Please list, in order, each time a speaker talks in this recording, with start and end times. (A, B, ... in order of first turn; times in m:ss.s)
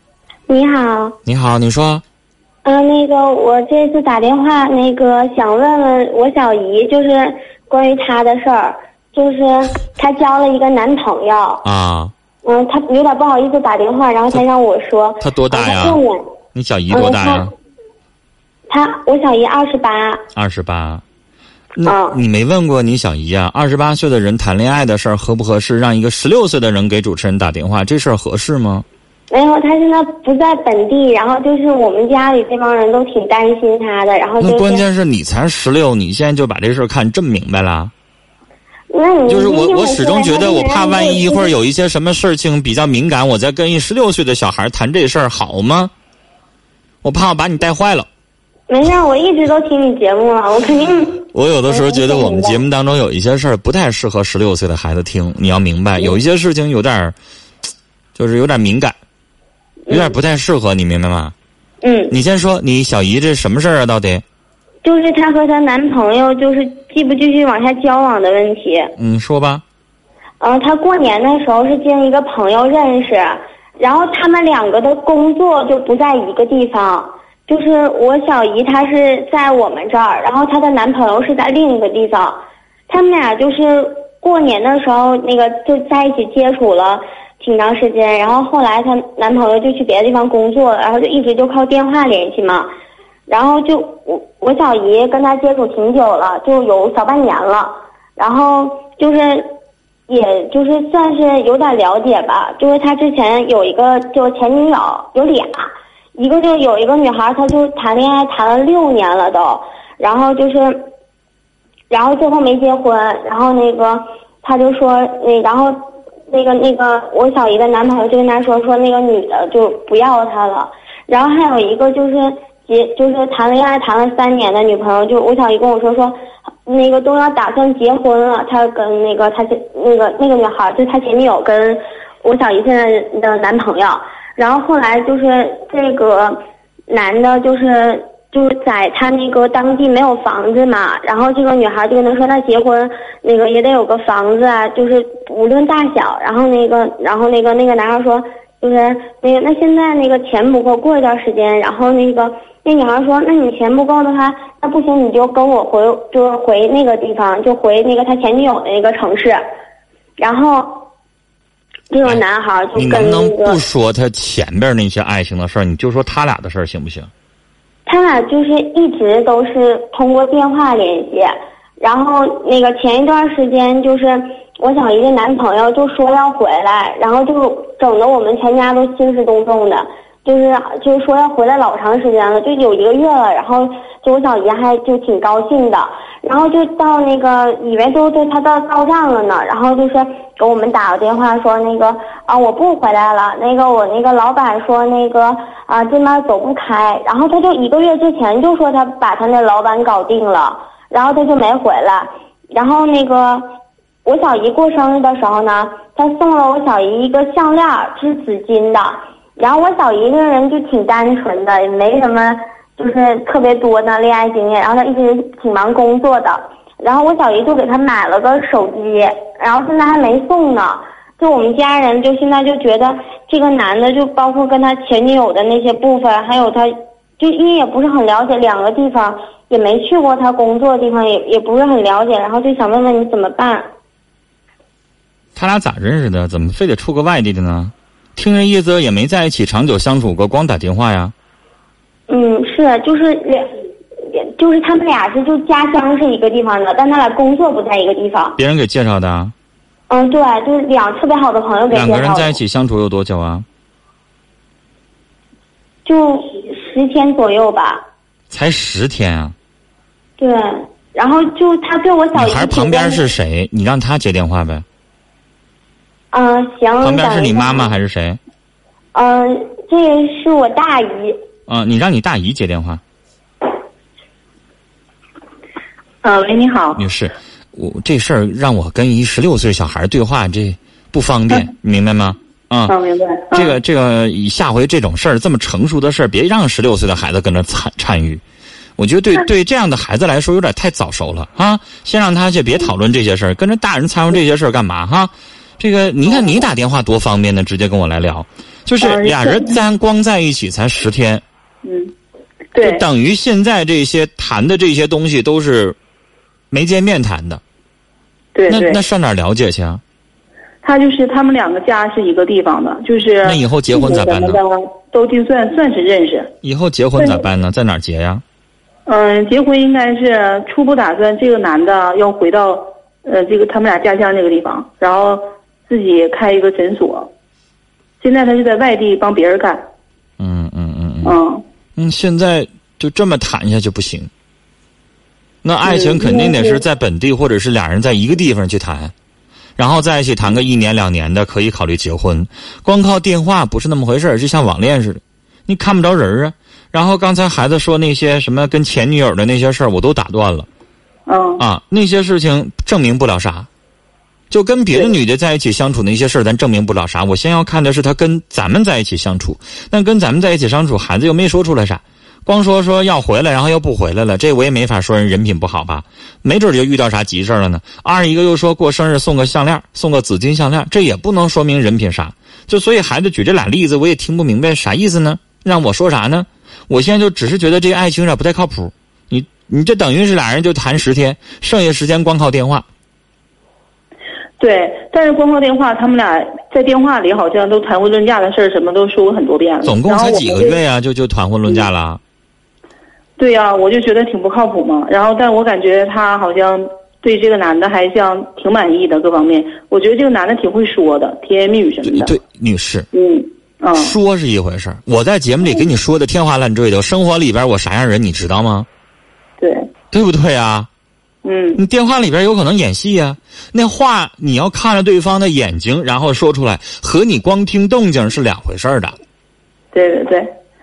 0:00.5-0:01.2 A
0:01.3-0:02.0 B
0:02.6-0:11.6 A
0:11.6-0:12.1 B
0:12.4-0:16.2 A
0:15.2-0:16.0 B
0:16.6-0:17.5 B
0:16.9-0:17.5 A
0:18.7-0:20.2 A
0:20.4-0:21.0 B
0:21.8-0:28.8 B
0:21.8-0:22.2 A
0:29.3-0:34.8 A
0:34.4-0:37.9 B
0:38.9-0:41.6 A
0:39.3-0:45.9 B
0:47.0-0:48.1 B
0:48.7-0:52.6 A
0:51.3-0:57.2 B
0:58.2-0:59.0 B
0:59.9-1:00.2 A
0:59.9-1:01.3 B
1:01.8-1:02.2 A
1:02.1-1:04.2 B
1:04.8-1:08.9 A
1:09.0-1:09.6 B
1:10.4-1:22.4 A
1:22.9-1:32.7 A
1:33.3-1:39.5 A
1:40.1-1:50.8 A
1:51.9-1:55.8 A
1:56.3-2:06.2 A
2:06.7-2:39.4 A
2:40.2-2:40.9 A
2:41.9-2:43.6 A
2:42.8-2:47.1 B
2:47.9-3:23.5 A
3:24.0-3:53.7 A
3:55.4-4:01.1 B
4:02.1-4:03.5 A
4:04.0-4:08.4 A
4:08.4-4:09.3 B
4:09.9-4:12.4 A
4:11.7-4:13.4 B
4:15.8-4:17.8 A
4:18.3-4:19.4 B
4:20.2-4:23.1 A
4:22.1-4:24.6 B
4:26.1-4:27.7 A
4:26.8-4:28.2 B
4:28.9-4:31.2 A
4:31.5-4:32.8 B
4:36.0-4:36.8 C
4:36.8-4:42.8 B
4:42.7-4:43.6 C
4:43.3-4:48.2 B
4:48.8-5:01.2 B
4:58.8-4:59.6 C
5:01.6-5:01.9 C
5:02.5-5:02.8 C
5:02.6-5:05.8 B
5:06.5-5:07.4 B
5:08.4-5:08.8 C
5:08.5-5:09.8 B
5:10.6-5:16.3 C
5:13.2-5:14.4 B
5:16.4-5:18.2 B
5:17.0-5:17.2 C
5:18.9-5:27.1 C
5:28.0-5:29.7 C
5:30.2-5:31.2 B
5:31.0-5:31.4 C
5:31.8-5:34.1 B
5:35.4-5:38.9 B
5:35.6-5:36.6 C
5:39.6-5:50.5 B
5:51.1-5:51.4 C
5:51.4-5:53.5 B
5:54.3-6:22.7 B
6:24.4-6:30.6 C
6:29.6-6:32.0 B
6:33.2-6:42.2 C
6:41.9-6:42.9 B
6:42.9-6:44.0 C
6:43.8-6:48.7 B
6:49.4-6:49.7 C
6:49.9-6:50.7 B
6:51.2-6:51.6 C
6:51.6-6:59.0 B
6:59.7-7:00.3 C